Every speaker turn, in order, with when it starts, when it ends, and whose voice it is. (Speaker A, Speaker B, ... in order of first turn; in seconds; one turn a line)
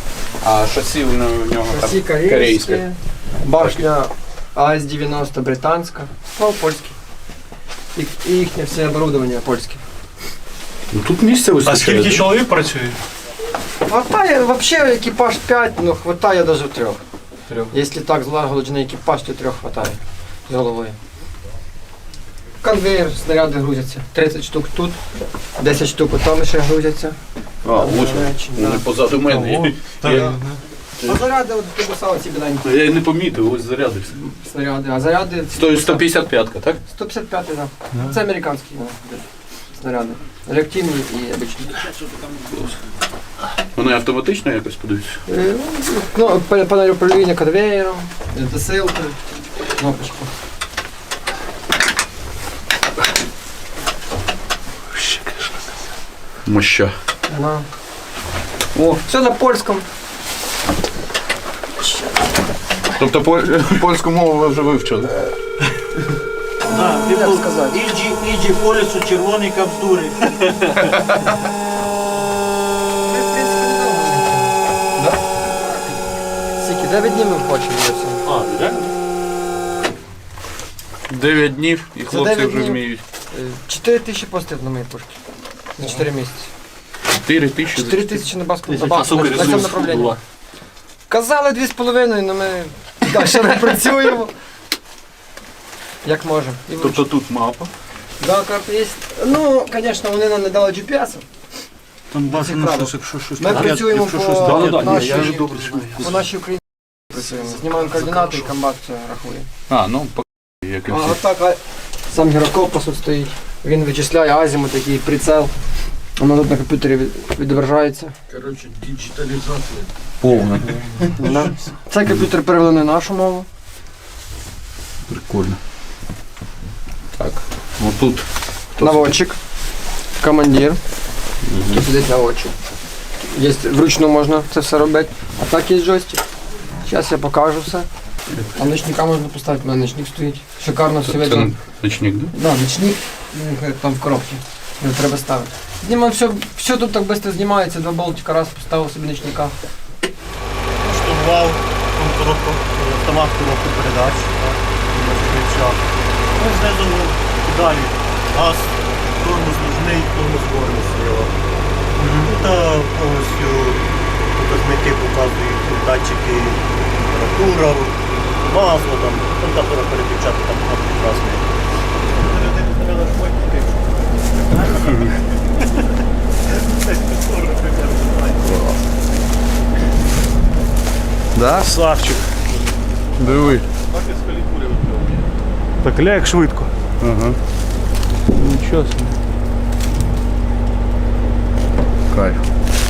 Speaker A: 0.4-2.9
Speaker B: 1.6-7.0
Speaker B: 7.9-9.8
Speaker A: 10.9-12.3
Speaker C: 11.6-12.9
Speaker B: 13.9-21.0
Speaker B: 22.6-25.0
Speaker B: 25.5-28.9
Speaker A: 27.6-30.4
Speaker B: 30.0-30.3
Speaker B: 31.0-32.8
Speaker A: 32.6-34.1
Speaker B: 34.1-36.3
Speaker A: 35.5-36.8
Speaker B: 36.9-42.0
Speaker A: 43.8-45.2
Speaker B: 45.3-49.2
Speaker B: 49.7-50.3
Speaker A: 56.5-57.0
Speaker B: 57.3-57.7
Speaker B: 58.9-59.9
Speaker B: 61.8-62.1
Speaker A: 63.0-65.1
Speaker B: 66.7-67.8
Speaker D: 66.7-70.5
Speaker A: 70.9-71.2
Speaker B: 73.0-75.2
Speaker B: 76.6-78.5
Speaker A: 81.1-83.0
Speaker B: 82.0-85.2
Speaker B: 85.7-86.5
Speaker A: 87.2-88.3
Speaker B: 87.7-90.2
Speaker A: 88.9-90.2
Speaker B: 91.1-94.3
Speaker B: 96.0-97.2
Speaker A: 96.8-97.7
Speaker B: 98.2-101.2
Speaker D: 102.1-105.2
Speaker B: 102.3-109.5
Speaker A: 104.5-105.1
Speaker C: 105.0-106.1
Speaker A: 109.7-111.1
Speaker B: 110.8-115.5
Speaker B: 116.2-118.1
Speaker A: 118.3-121.2
Speaker B: 121.1-123.5
Speaker A: 125.1-125.6
Speaker A: 127.2-129.2
Speaker B: 128.8-129.4
Speaker B: 130.2-130.8
Speaker B: 131.6-132.5
Speaker B: 133.3-136.2
Speaker B: 136.8-137.9
Speaker B: 138.5-149.5
Speaker A: 141.0-142.3
Speaker E: 150.8-155.8
Speaker E: 156.4-161.3
Speaker E: 162.0-171.5
Speaker C: 162.0-162.3
Speaker E: 172.1-175.2
Speaker E: 176.7-178.6
Speaker A: 178.4-178.8
Speaker A: 181.3-181.7
Speaker C: 181.5-182.3
Speaker A: 183.2-183.7
Speaker E: 183.9-184.6
Speaker A: 184.9-185.2
Speaker C: 185.8-186.7
Speaker A: 187.0-187.4
Speaker C: 188.3-189.2
Speaker A: 192.1-192.4